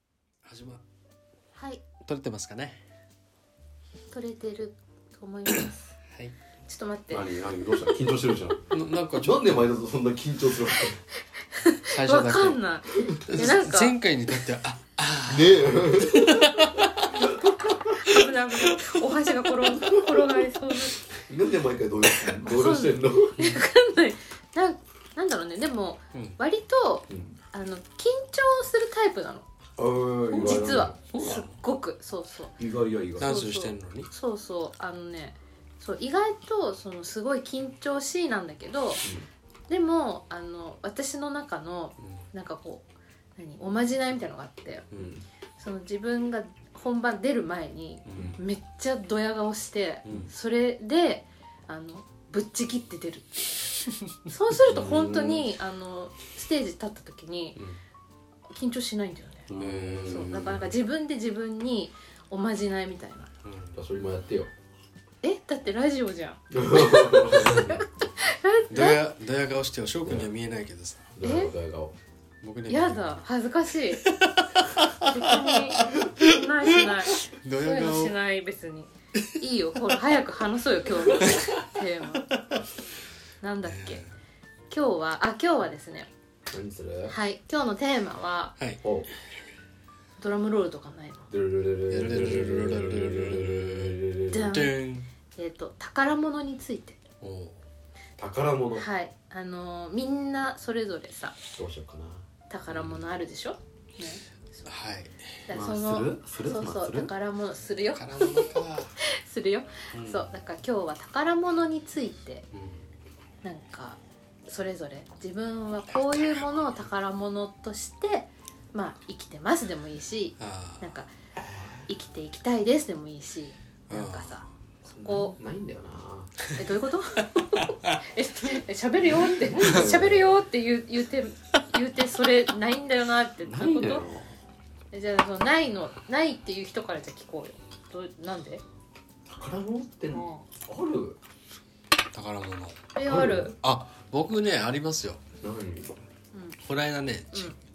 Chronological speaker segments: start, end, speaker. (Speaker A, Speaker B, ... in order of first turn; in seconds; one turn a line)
Speaker A: 0.4-0.8
Speaker B: 1.6-1.8
Speaker A: 2.0-2.8
Speaker B: 4.1-5.8
Speaker A: 6.1-6.3
Speaker B: 6.7-7.6
Speaker C: 7.1-8.7
Speaker A: 8.7-9.7
Speaker C: 9.2-11.0
Speaker B: 11.5-14.0
Speaker A: 11.9-12.6
Speaker C: 12.9-13.4
Speaker A: 13.2-17.3
Speaker C: 15.2-17.8
Speaker B: 17.4-21.1
Speaker C: 21.1-23.4
Speaker B: 22.4-29.5
Speaker C: 27.1-27.4
Speaker C: 29.8-31.1
Speaker B: 30.3-32.6
Speaker A: 30.4-31.5
Speaker C: 32.6-33.3
Speaker A: 33.2-34.1
Speaker B: 33.2-39.0
Speaker C: 39.0-39.3
Speaker B: 39.7-44.9
Speaker C: 44.9-45.2
Speaker B: 45.6-57.6
Speaker A: 48.0-48.3
Speaker C: 48.1-48.4
Speaker C: 54.6-55.5
Speaker B: 58.5-59.5
Speaker C: 59.5-60.7
Speaker A: 59.5-60.6
Speaker B: 60.0-63.3
Speaker A: 63.4-63.8
Speaker C: 63.7-64.5
Speaker B: 65.2-69.0
Speaker C: 66.5-67.8
Speaker A: 68.7-71.1
Speaker C: 71.1-71.9
Speaker B: 71.2-71.5
Speaker A: 72.4-73.2
Speaker B: 72.7-74.1
Speaker A: 74.0-78.2
Speaker B: 75.0-82.3
Speaker B: 83.4-84.0
Speaker A: 83.6-84.1
Speaker B: 84.7-86.1
Speaker C: 86.5-87.2
Speaker B: 87.1-88.5
Speaker C: 88.8-89.1
Speaker B: 90.2-91.3
Speaker C: 91.3-94.5
Speaker A: 91.9-95.1
Speaker B: 94.3-94.8
Speaker B: 95.3-97.0
Speaker A: 97.2-97.6
Speaker C: 98.2-98.9
Speaker B: 98.7-101.4
Speaker C: 101.5-102.2
Speaker B: 102.5-104.7
Speaker A: 102.7-103.1
Speaker A: 104.7-105.5
Speaker B: 105.5-112.5
Speaker C: 105.5-107.1
Speaker A: 107.9-108.9
Speaker A: 109.9-110.3
Speaker A: 112.5-112.8
Speaker B: 113.4-121.1
Speaker A: 116.1-116.6
Speaker A: 120.4-120.9
Speaker C: 121.4-121.9
Speaker B: 121.9-124.4
Speaker A: 123.9-124.5
Speaker C: 124.8-126.4
Speaker B: 125.0-125.3
Speaker B: 126.5-134.1
Speaker A: 127.6-128.0
Speaker C: 129.0-130.4
Speaker C: 133.4-134.3
Speaker B: 134.9-138.6
Speaker C: 139.2-141.2
Speaker B: 140.1-140.4
Speaker A: 142.1-142.9
Speaker B: 142.9-143.5
Speaker C: 143.1-143.6
Speaker A: 143.6-145.2
Speaker C: 145.4-145.9
Speaker B: 146.3-146.6
Speaker A: 146.6-147.6